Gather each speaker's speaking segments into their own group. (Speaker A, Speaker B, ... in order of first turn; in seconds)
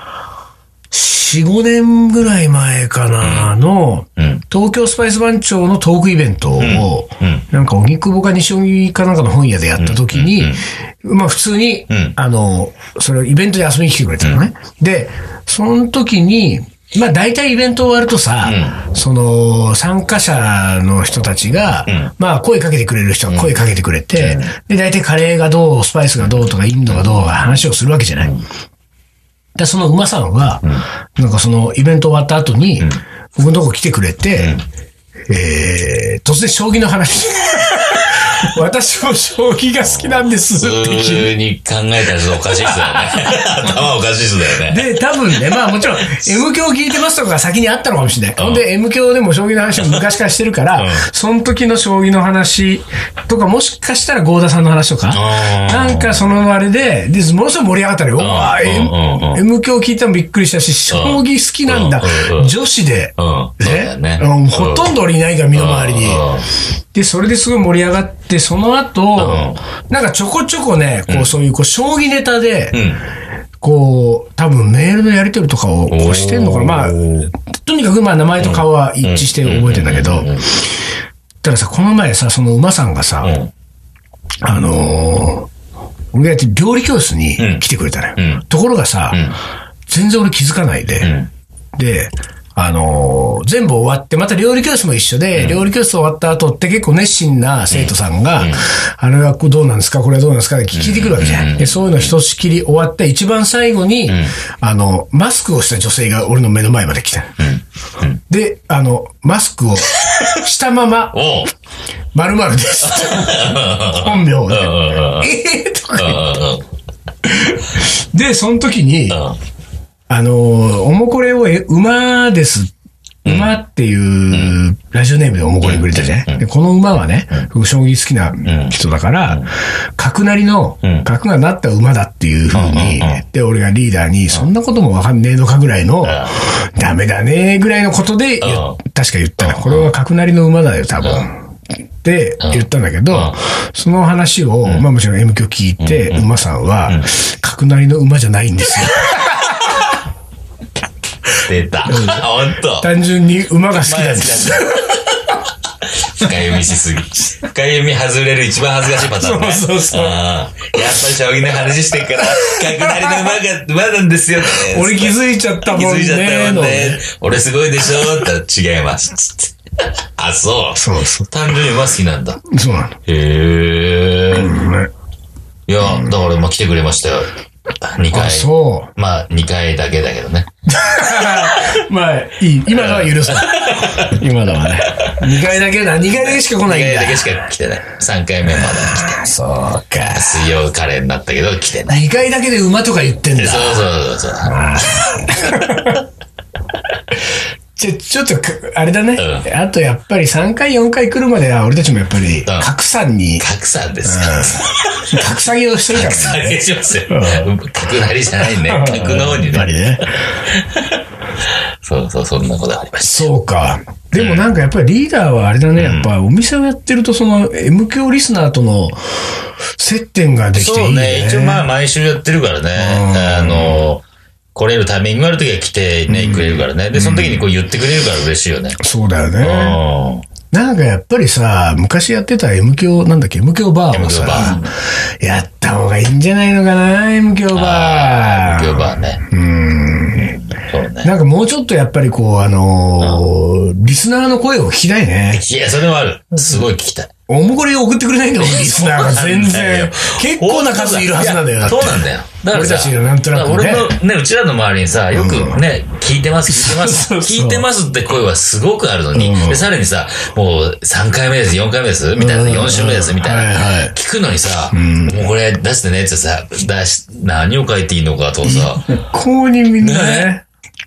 Speaker A: 0.9-28.3, 29.6-30.6, 31.2-34.6, 35.3-41.4, 42.5-43.4, 44.6-66.3, 66.9-72.8, 73.6-77.0, 77.5-80.4, 81.4-83.4, 84.4-85.5, 86.1-89.2, 89.9-91.2, 91.8-107.4, 108.3-111.2, 112.1-116.4, 117.2-119.2, 120.1-122.7, 123.2-141.4, 142.0-149.9, 151.9-155.0, 158.9-160.2, 162.0-163.4, 164.5-167.0, 170.8-171.3, 172.5-173.0, 174.3-174.9, 175.8-176.1, 178.1-178.9, 180.7-187.4, 188.5-190.5, 191.9-193.9, 194.4-196.1, 197.8-203.5, 204.0-207.5, 208.4-210.2, 213.0-219.2, 219.8-221.7, 222.8-223.8, 226.1-227.5, 228.8-229.8, 230.5-240.4, 241.0-245.4, 247.3-253.9, 255.1-255.6, 256.5-257.7, 259.1-259.7, 262.2-263.9, 264.7-265.3, 268.4-270.4
Speaker B: 3.2-3.5, 4.2-4.4, 6.6-7.5, 9.8-10.6, 11.9-12.2, 18.4-18.8, 21.9-22.1, 23.3-23.6, 24.2-24.5, 26.2-27.6, 34.4-34.6, 37.9-38.5, 39.8-46.3, 48.4-48.7, 50.8-51.1, 55.1-56.4, 58.2-59.4, 60.9-62.5, 63.2-65.0, 65.5-66.5, 69.2-69.6, 71.1-71.3, 72.7-73.0, 75.9-77.3, 78.4-80.5, 83.2-83.5, 87.4-87.7, 88.2-88.5, 89.1-89.4, 91.0-91.3, 95.3-95.7, 97.7-98.7, 100.7-102.2, 104.1-104.4, 107.4-108.2, 109.9-110.4, 111.1-111.5, 112.8-115.3, 116.0-116.7, 119.1-119.4, 123.2-123.6, 124.3-124.6, 125.6-126.5, 128.4-129.5, 130.8-131.1, 132.5-133.2, 136.0-136.4, 138.4-138.8, 139.4-139.9, 141.0-141.3, 142.4-143.4, 145.8-146.3, 151.4-152.9, 153.7-155.3, 155.9-169.5, 170.2-172.4, 173.1-174.6, 175.7-177.3, 177.8-180.5, 181.5-181.7, 182.7-184.2, 184.9-185.3, 186.0-189.3, 190.1-192.1, 193.4-196.0, 199.2-199.5, 203.4-205.2, 205.9-209.8, 210.4-213.3, 214.2-214.5, 215.8-216.1, 220.5-228.8, 229.4-230.3, 233.9-234.8, 237.5-239.2, 240.2-241.1, 243.0-243.2, 245.3-247.1, 248.4-269.0, 269.8-270.3